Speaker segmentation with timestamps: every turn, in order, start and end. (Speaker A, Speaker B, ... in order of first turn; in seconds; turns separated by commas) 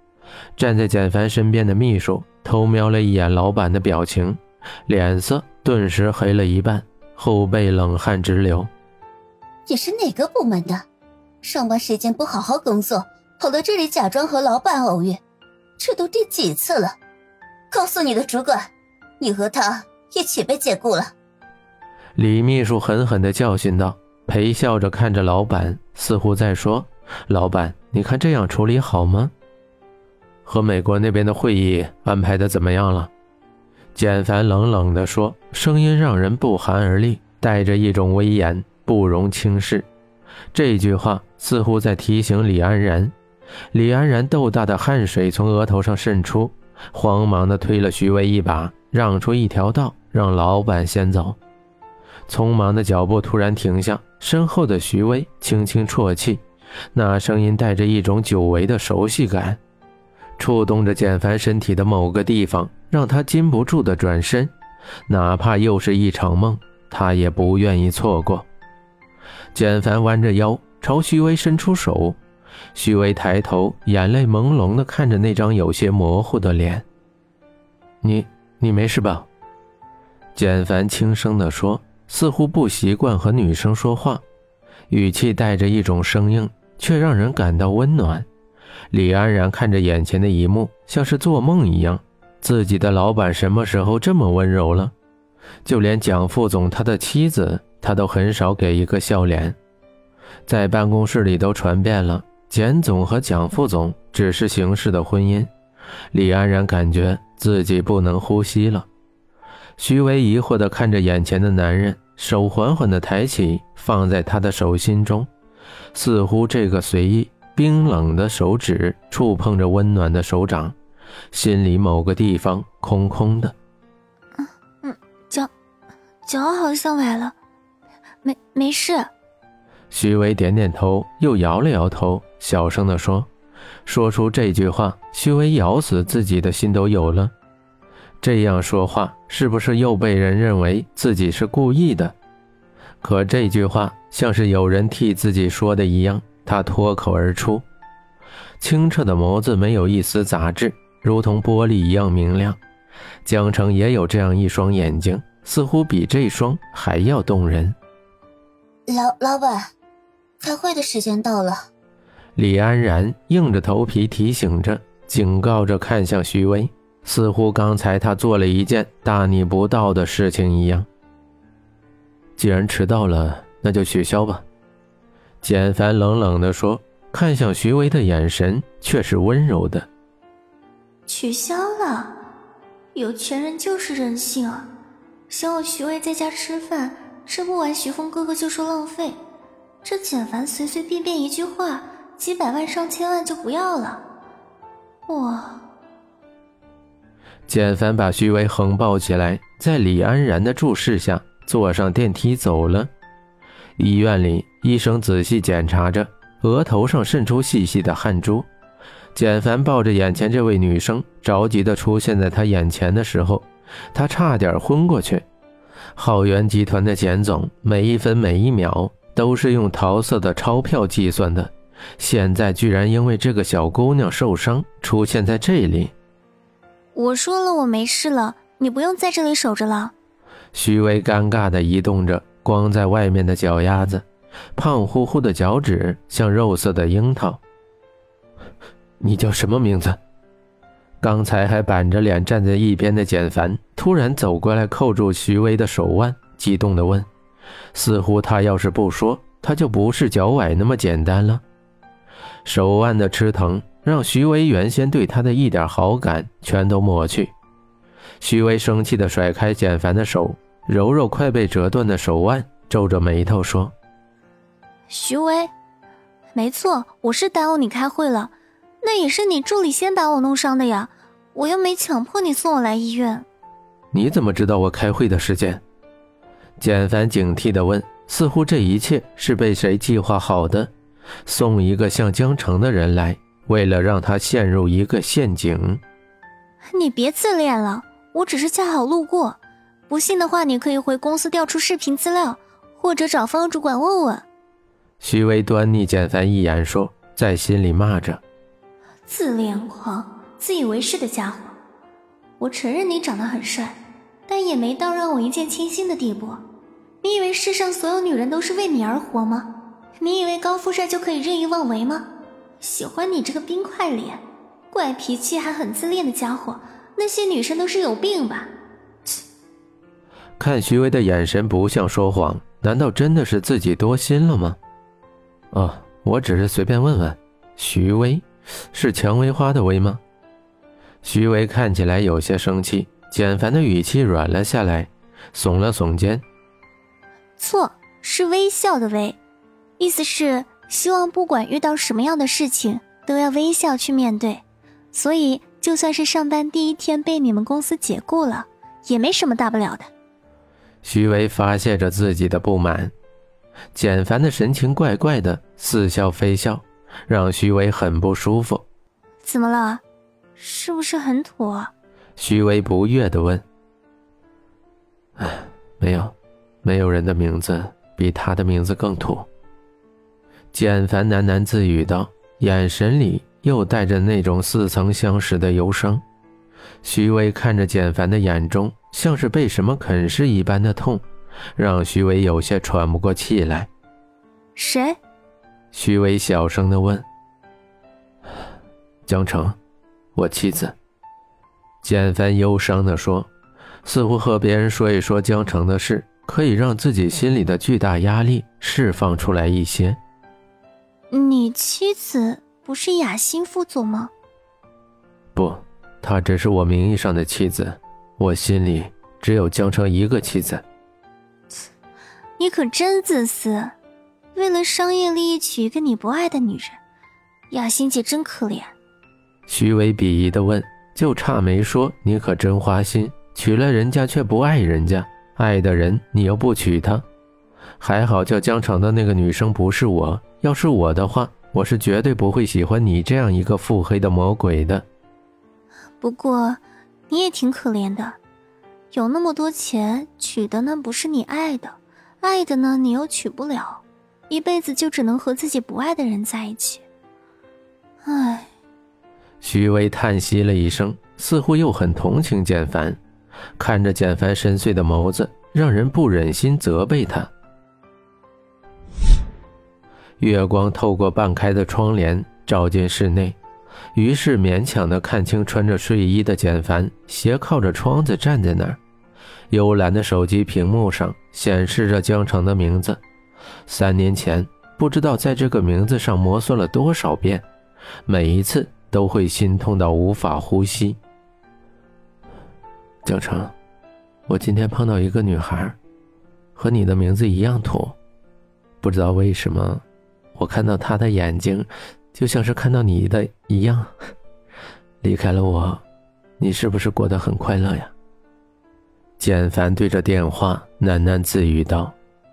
Speaker A: 0.6-8.7, Speaker B: 9.7-10.8, Speaker B: 11.4-15.2, Speaker B: 15.8-17.0, Speaker B: 17.7-21.1, Speaker A: 22.1-29.3, Speaker A: 30.4-33.1, Speaker A: 33.9-39.9, Speaker A: 40.5-43.1, Speaker A: 43.7-51.4, Speaker A: 52.3-56.4, Speaker A: 56.9-59.6, Speaker A: 60.4-64.5, Speaker A: 65.1-68.5, Speaker A: 69.5-72.2, Speaker A: 72.7-76.8, Speaker A: 78.0-79.3, Speaker A: 80.3-84.2, Speaker A: 84.9-88.3, Speaker A: 88.9-94.9, Speaker A: 95.6-99.6, Speaker A: 100.5-105.5, Speaker A: 106.1-108.9, Speaker A: 109.8-115.3, Speaker A: 115.9-120.8, Speaker A: 121.3-123.5, Speaker C: 124.4-125.5, Speaker C: 126.2-127.3, Speaker C: 128.2-129.1, Speaker A: 129.9-133.3, Speaker A: 133.8-137.3, Speaker A: 138.2-142.2, Speaker A: 143.0-147.6, Speaker A: 148.6-152.6, Speaker A: 153.2-157.8, Speaker B: 158.9-159.7, Speaker B: 160.4-161.7, Speaker A: 162.4-170.9, Speaker A: 172.4-174.4, Speaker A: 175.4-179.9, Speaker C: 181.1-182.2, Speaker C: 182.9-184.7, Speaker C: 185.3-189.2, Speaker C: 189.8-194.0, Speaker C: 195.1-195.6, Speaker A: 197.5-202.9, Speaker A: 203.8-208.5, Speaker A: 209.1-215.2, Speaker A: 215.9-225.9, Speaker C: 226.9-229.9, Speaker A: 230.5-234.0, Speaker A: 234.6-237.4, Speaker A: 239.0-240.0, Speaker A: 241.0-247.1, Speaker A: 247.7-251.4, Speaker A: 252.4-257.3, Speaker A: 258.2-263.7, Speaker C: 264.9-265.5, Speaker C: 266.3-273.2, Speaker A: 273.9-275.6, Speaker A: 276.6-280.7, Speaker A: 281.2-285.8, Speaker C: 286.7-294.2, Speaker A: 295.0-298.2, Speaker C: 299.1-301.6, Speaker C: 302.4-306.4, Speaker C: 307.0-318.5, Speaker A: 320.4-324.6, Speaker A: 325.5-330.0, Speaker A: 331.0-336.2, Speaker C: 337.4-339.2, Speaker C: 339.8-349.9, Speaker A: 350.8-352.9, Speaker A: 353.7-358.6, Speaker C: 359.2-359.8, Speaker C: 360.4-361.7, Speaker A: 362.2-363.4, Speaker A: 365.2-369.3, Speaker A: 370.5-376.0, Speaker A: 376.8-381.0, Speaker A: 381.6-383.7, Speaker C: 384.6-385.0, Speaker A: 385.7-387.1, Speaker A: 389.0-389.6, Speaker A: 390.1-390.8, Speaker A: 391.8-393.3, Speaker A: 393.8-400.0, Speaker C: 401.1-404.1, Speaker A: 405.3-410.6, Speaker C: 412.4-413.7, Speaker C: 414.3-416.8, Speaker C: 417.5-418.7, Speaker A: 419.5-427.0, Speaker A: 427.8-434.9, Speaker C: 436.0-438.2, Speaker C: 438.9-446.8, Speaker C: 448.0-448.5, Speaker A: 449.4-453.0, Speaker A: 453.6-457.3, Speaker A: 460.2-463.4, Speaker A: 463.9-468.8, Speaker A: 469.5-473.0, Speaker A: 473.7-477.4, Speaker A: 478.1-481.0, Speaker A: 483.0-483.5, Speaker A: 484.3-485.8, Speaker A: 486.6-488.0, Speaker A: 488.8-489.8, Speaker A: 490.3-493.9, Speaker A: 495.0-495.8, Speaker A: 496.4-497.9, Speaker A: 499.2-501.9